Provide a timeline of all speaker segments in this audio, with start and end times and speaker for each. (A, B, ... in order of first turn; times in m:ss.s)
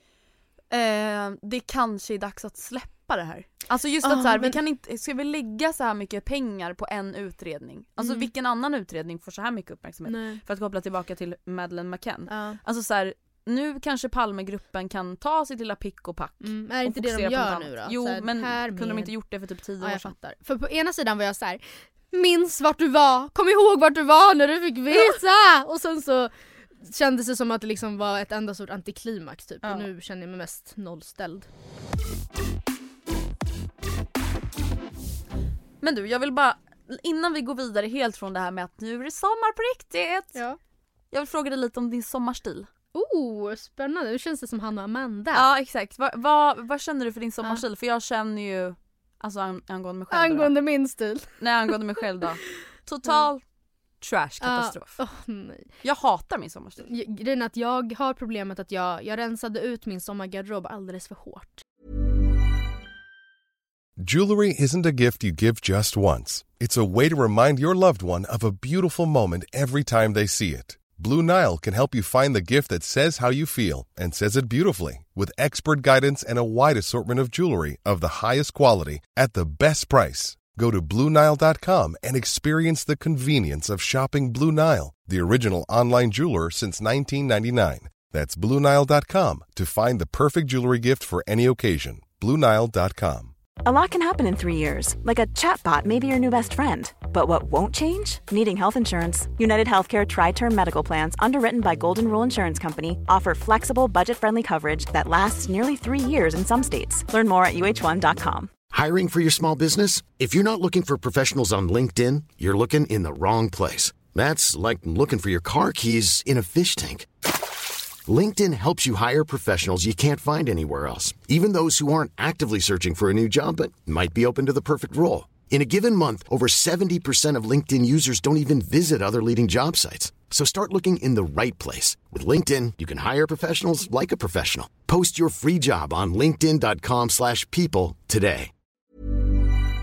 0:00.7-0:20.1 A
0:04.0-0:04.6 B
0:08.0-0:08.3 B
0:10.1-0:10.4 B
0:12.3-0:12.6 B
0:16.4-0:19.1 B
0:19.8-0:31.5 B
0:29.6-0:29.9 A
0:35.8-0:40.4 A
0:41.1-0:42.7 A
0:42.9-0:45.4 B
0:45.3-0:50.5 A
0:50.1-0:51.4 B
0:51.4-0:53.4 A
0:54.0-0:55.0 A
0:54.4-0:55.7 B
0:55.8-0:56.9 A
0:56.9-1:01.6 B
1:04.0-1:33.3 C
1:33.6-1:48.5 D
1:48.7-1:57.1 E
1:58.1-2:18.5 E